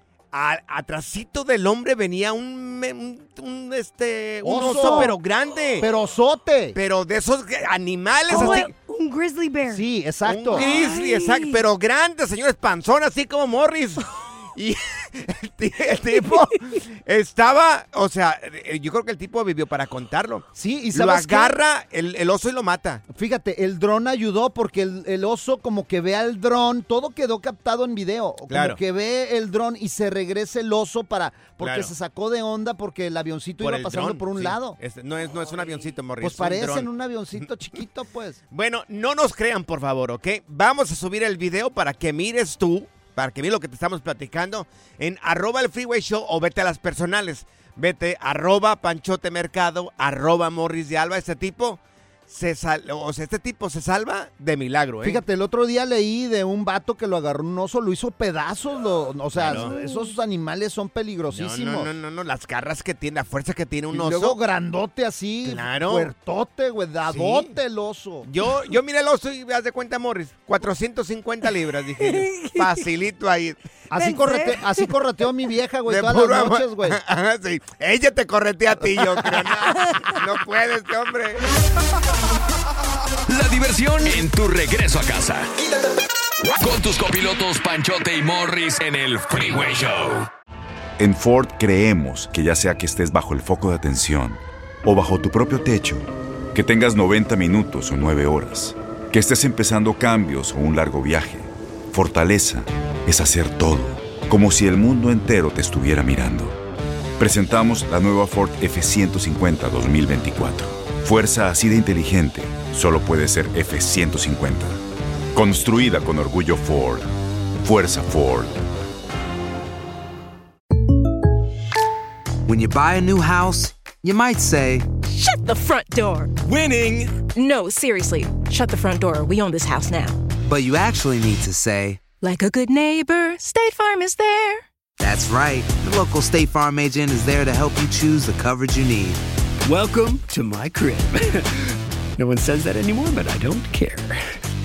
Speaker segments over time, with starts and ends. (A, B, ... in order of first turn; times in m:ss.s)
0:00.3-0:05.9 A
0:04.4-0:05.2 B
0:04.6-0:05.1 C
0:05.8-0:06.8 B
0:06.7-0:08.7 A
0:08.3-0:09.8 C
0:08.3-0:08.7 B
0:09.7-0:10.7 B
0:10.2-0:23.0 A
0:10.5-0:11.6 C
0:20.5-0:21.6 B
0:23.1-0:34.8 B
0:28.5-0:28.8 A
0:31.6-0:31.9 A
0:33.6-0:37.8 A
0:36.2-0:38.4 B
0:38.5-0:55.2 A
0:55.0-1:01.9 B
0:59.3-0:59.7 A
0:59.5-1:00.1 C
1:01.3-1:04.4 A
1:03.9-1:08.3 B
1:05.4-1:06.1 A
1:07.0-1:07.6 A
1:08.2-1:13.6 A
1:12.0-1:12.8 C
1:13.9-1:17.0 B
1:13.9-1:14.8 C
1:15.8-1:21.4 A
1:19.0-1:19.5 B
1:23.3-1:25.5 D
1:26.6-1:30.3 D
1:31.0-1:46.6 E
1:47.2-1:54.8 E
1:55.3-1:58.6 E
2:02.4-2:04.9 F
2:05.0-2:06.3 G
2:07.2-2:10.2 G
2:10.4-2:12.0 F
2:12.2-2:14.6 G
2:15.0-2:19.2 F
2:19.6-2:24.3 H